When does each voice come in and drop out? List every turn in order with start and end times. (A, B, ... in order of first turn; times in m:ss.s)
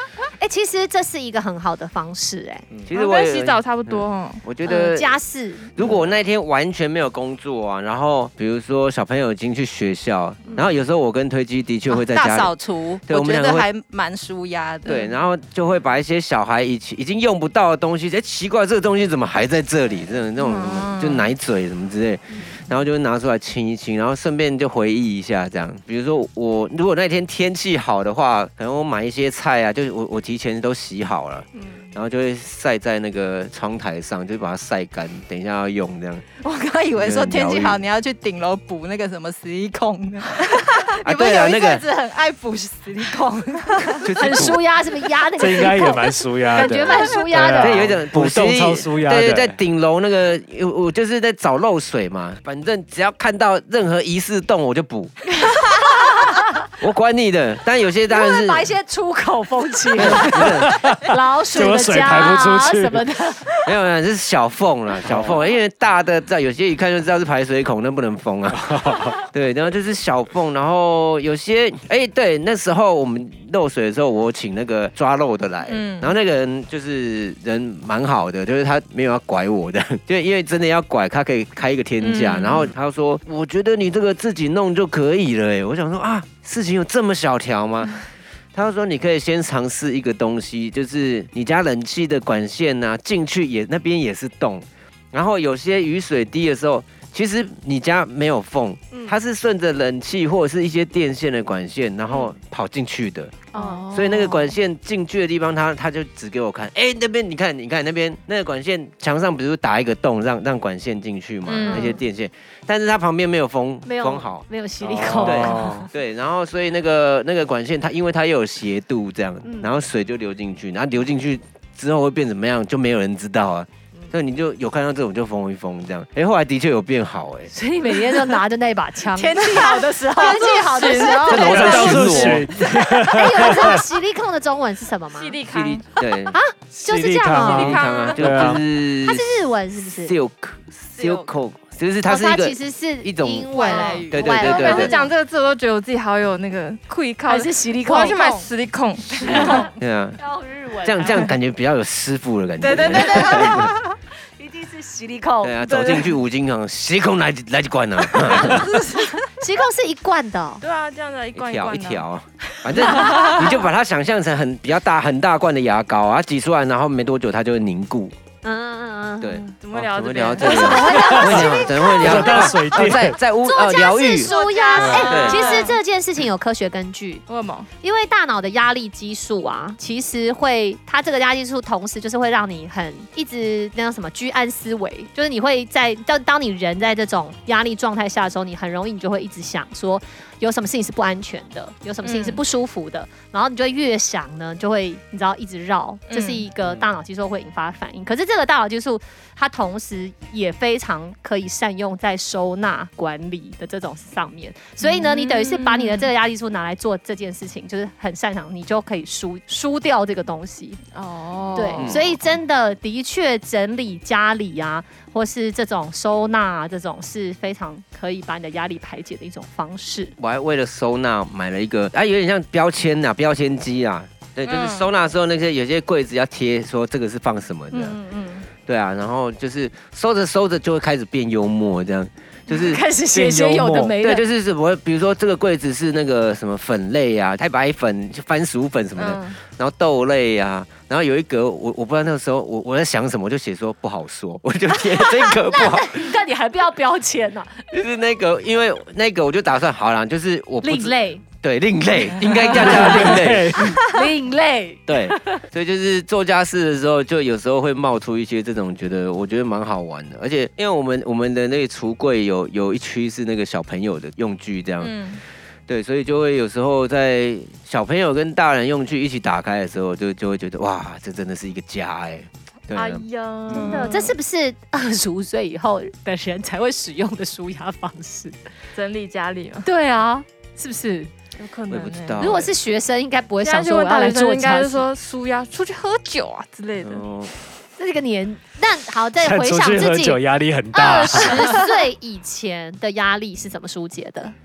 0:00.4-0:02.7 A
0:02.9-0:05.2 B
0:02.9-0:04.4 C
0:04.6-0:05.7 A
0:05.8-0:12.6 B
0:11.9-0:15.1 D
0:13.1-0:13.7 B
0:14.8-0:36.2 B
0:20.4-0:21.3 C
0:36.4-0:44.1 D
0:36.9-0:37.8 B
0:41.0-0:41.8 B
0:44.0-0:44.6 B
0:44.2-0:47.9 A
0:45.4-0:49.6 E
0:46.7-0:47.1 D
0:47.6-0:55.1 B
0:55.7-0:56.7 A
0:56.8-0:58.7 B
0:58.1-1:03.7 A
1:00.0-1:00.8 B
1:00.0-1:03.1 E
1:03.6-1:28.0 B
1:05.0-1:05.4 E
1:08.5-1:09.2 E
1:15.7-1:16.1 C
1:22.0-1:22.7 C
1:28.5-1:54.4 B
1:43.5-1:43.8 A
1:43.5-1:44.6 C
1:51.5-1:52.0 C
1:53.8-1:55.9 A
1:54.8-1:55.9 E
1:55.2-2:07.5 B
1:59.4-1:59.7 A
2:07.5-2:15.4 A
2:09.1-2:11.5 D
2:10.2-2:11.8 C
2:11.3-2:12.5 B
2:11.5-2:13.8 E
2:15.1-2:15.8 C
2:15.6-2:16.0 D
2:15.8-2:16.4 B
2:16.3-2:17.9 A
2:16.7-2:18.6 E
2:17.4-2:19.3 B
2:17.5-2:18.5 D
2:19.0-2:20.2 A
2:19.8-2:25.1 B
2:21.0-2:21.3 D
2:22.0-2:25.1 A
2:23.5-2:24.9 D
2:23.5-2:29.7 C
2:27.3-2:28.2 A
2:27.9-2:28.5 D
2:29.2-2:30.2 B
2:29.2-2:31.3 A
2:30.8-2:33.7 B
2:32.6-2:33.6 C
2:32.8-2:33.7 A
2:34.4-2:36.1 A
2:35.4-2:38.7 B
2:38.3-2:38.8 A
2:38.6-2:39.3 D
2:39.4-2:40.6 A
2:40.6-2:42.0 C
2:41.4-2:48.2 B
2:48.4-2:49.4 A
2:49.2-2:54.3 B
2:49.4-2:51.2 C
2:50.4-2:57.2 A
2:50.9-2:53.2 E
2:54.2-2:55.8 D
2:54.8-2:55.8 C
2:54.8-2:55.1 E
2:55.1-2:55.6 B
2:57.3-2:57.7 C
2:57.8-3:30.8 A
3:12.0-3:12.4 D
3:16.1-3:16.4 C
3:16.6-3:16.9 E
3:24.8-3:26.1 C
3:30.9-3:32.0 C
3:31.6-3:40.2 A
3:31.8-3:32.2 B
3:40.2-3:48.0 B
3:44.4-3:44.9 C
3:47.7-3:48.5 D
3:48.6-3:52.8 B
3:52.5-3:54.2 A
3:53.1-3:54.0 E
3:54.0-4:06.1 B
3:59.0-3:59.4 C
4:04.9-4:07.7 A
4:07.7-4:13.8 B
4:10.6-4:11.2 A
4:12.4-4:13.8 E
4:12.6-4:15.4 A
4:14.9-4:25.0 B
4:24.8-4:25.2 C
4:25.7-4:33.9 B
4:32.7-4:34.2 C
4:33.5-4:38.4 A
4:38.8-4:39.7 C
4:39.6-4:41.1 A
4:41.4-4:42.4 C
4:41.7-4:42.5 B
4:42.2-4:44.9 A
4:43.4-4:47.1 C
4:46.8-4:47.3 B
4:47.8-4:50.2 A
4:49.2-4:51.5 E
4:50.7-4:54.4 A